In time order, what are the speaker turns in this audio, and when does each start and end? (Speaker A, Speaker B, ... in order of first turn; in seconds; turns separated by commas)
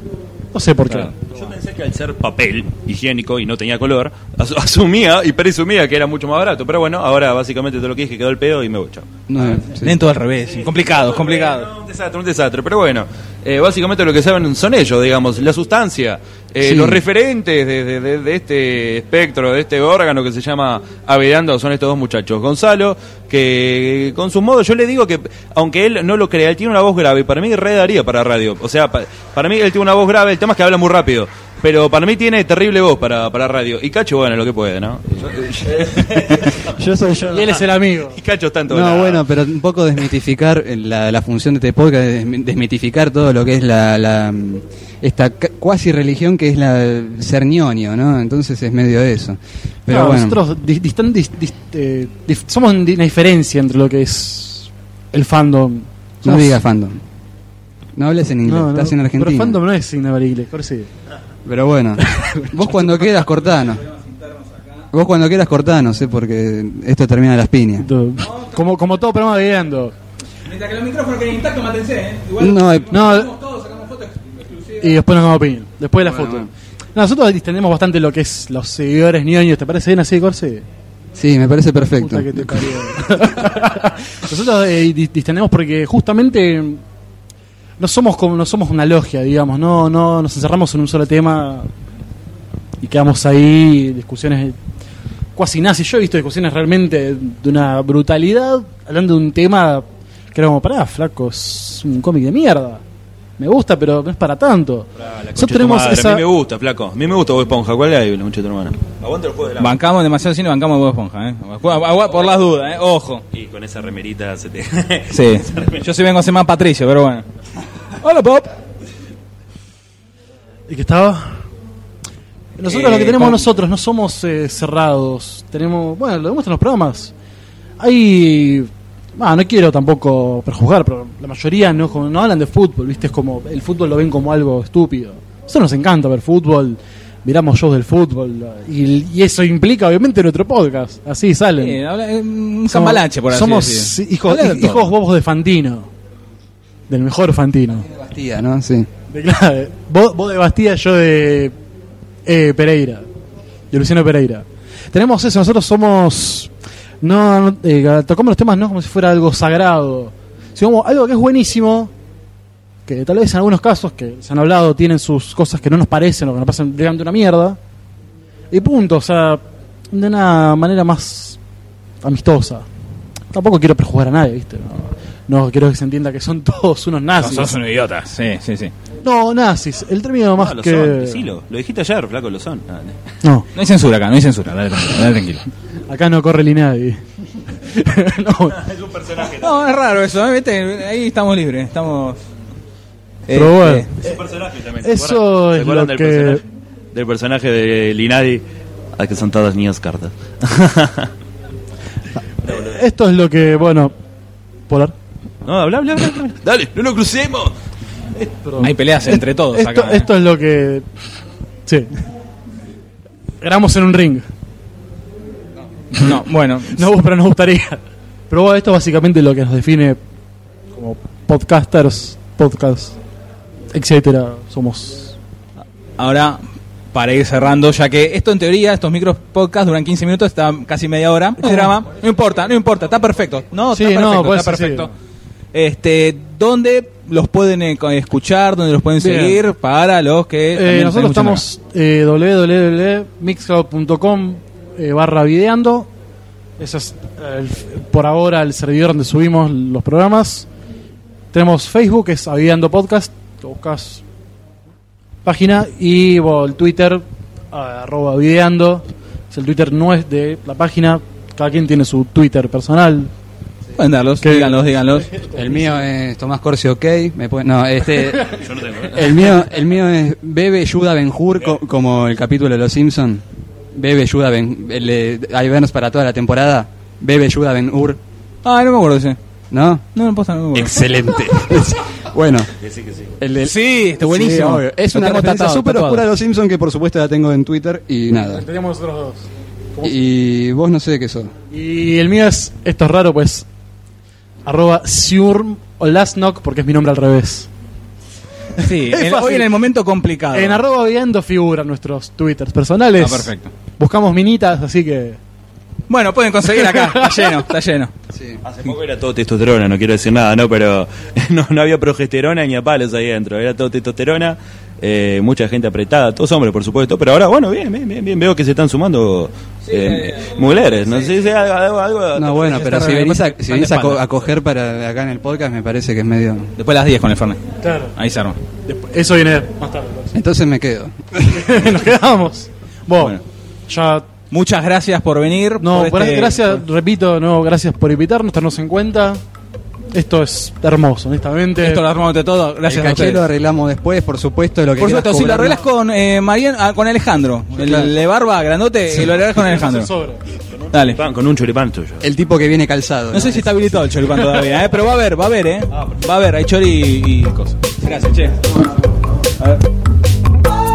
Speaker A: 0.5-1.2, Speaker B: 1.3-9.5, Speaker C: 9.3-10.0, Speaker D: 9.8-11.7, Speaker B: 10.5-36.7, Speaker C: 16.6-17.0, Speaker C: 36.3-37.4, Speaker A: 37.0-38.2, Speaker B: 37.4-39.2, Speaker C: 38.7-50.4, Speaker A: 49.9-56.6, Speaker C: 56.2-57.0, Speaker C: 58.0-59.6, Speaker A: 58.5-60.9, Speaker C: 61.5-63.8, Speaker D: 63.8-64.7, Speaker C: 64.9-67.9, Speaker A: 67.8-69.9, Speaker D: 70.5-74.9, Speaker C: 72.4-73.0, Speaker A: 72.9-73.3, Speaker A: 74.8-80.6, Speaker C: 76.0-76.5, Speaker C: 81.2-83.2, Speaker A: 82.0-86.8, Speaker A: 87.8-91.7, Speaker A: 92.8-94.6, Speaker A: 95.4-102.8, Speaker A: 103.4-106.2, Speaker B: 105.0-109.8, Speaker D: 109.6-113.2, Speaker B: 113.3-115.8, Speaker D: 115.1-117.2, Speaker D: 118.0-118.5, Speaker A: 120.7-121.5, Speaker A: 122.6-127.1, Speaker D: 122.7-123.4, Speaker A: 127.8-141.8, Speaker D: 141.6-144.9, Speaker A: 142.7-145.9, Speaker A: 146.9-147.9, Speaker C: 147.9-148.9, Speaker A: 149.1-151.5, Speaker A: 152.3-153.1, Speaker A: 153.7-156.5, Speaker A: 157.0-161.9, Speaker A: 162.9-167.6, Speaker A: 168.5-171.4, Speaker A: 172.0-172.7, Speaker A: 173.3-177.5, Speaker D: 177.2-178.7, Speaker A: 179.0-181.2, Speaker B: 180.4-183.0, Speaker A: 183.2-183.5, Speaker D: 183.6-185.5, Speaker A: 185.9-187.0, Speaker A: 187.6-188.6, Speaker B: 188.6-189.6, Speaker D: 189.3-192.2, Speaker D: 193.3-193.9, Speaker A: 193.3-194.2, Speaker B: 194.0-198.4, Speaker A: 194.8-196.4, Speaker B: 199.0-201.1, Speaker A: 202.4-203.9, Speaker A: 204.7-204.9, Speaker B: 205.4-207.5, Speaker A: 208.2-210.9, Speaker D: 208.6-210.1, Speaker A: 211.7-211.9, Speaker A: 213.4-214.2, Speaker D: 215.9-216.9, Speaker A: 216.7-220.0, Speaker A: 220.8-223.0, Speaker A: 223.7-225.2, Speaker D: 226.0-226.4, Speaker D: 226.9-234.9, Speaker A: 231.4-231.8, Speaker A: 233.7-234.9, Speaker D: 235.5-241.4, Speaker A: 239.0-239.4, Speaker A: 240.5-245.9, Speaker A: 246.6-250.5, Speaker A: 251.3-254.0, Speaker A: 255.2-263.1, Speaker D: 263.8-265.1, Speaker A: 264.2-264.6, Speaker A: 265.1-265.4, Speaker C: 265.4-278.0, Speaker B: 268.3-269.3, Speaker D: 278.4-279.2, Speaker C: 279.5-279.8, Speaker D: 279.9-280.8, Speaker B: 280.6-280.8, Speaker C: 280.6-282.5, Speaker B: 282.6-283.1, Speaker C: 283.2-288.4, Speaker D: 283.4-286.1, Speaker A: 288.1-289.2, Speaker C: 289.8-291.3, Speaker A: 291.5-293.5, Speaker A: 294.5-297.5, Speaker A: 298.6-299.5, Speaker D: 298.6-300.6, Speaker A: 300.3-305.2, Speaker D: 303.0-303.5, Speaker D: 305.9-307.9, Speaker A: 306.6-307.3, Speaker C: 308.1-308.4, Speaker B: 308.4-322.9, Speaker D: 319.7-321.1, Speaker C: 322.1-326.5, Speaker D: 322.5-324.0, Speaker D: 326.6-327.4, Speaker A: 327.6-327.9, Speaker D: 328.0-328.4, Speaker A: 328.7-330.1, Speaker C: 330.1-331.6, Speaker A: 331.3-333.1, Speaker A: 333.7-334.1, Speaker D: 334.3-336.6, Speaker A: 335.6-339.2, Speaker A: 339.9-341.8, Speaker D: 341.6-343.2, Speaker C: 342.6-345.6, Speaker D: 344.8-349.9, Speaker C: 347.6-347.9, Speaker A: 349.2-350.2, Speaker B: 350.6-352.0, Speaker D: 350.7-351.0, Speaker C: 352.0-354.2, Speaker D: 353.1-358.4, Speaker B: 355.7-356.0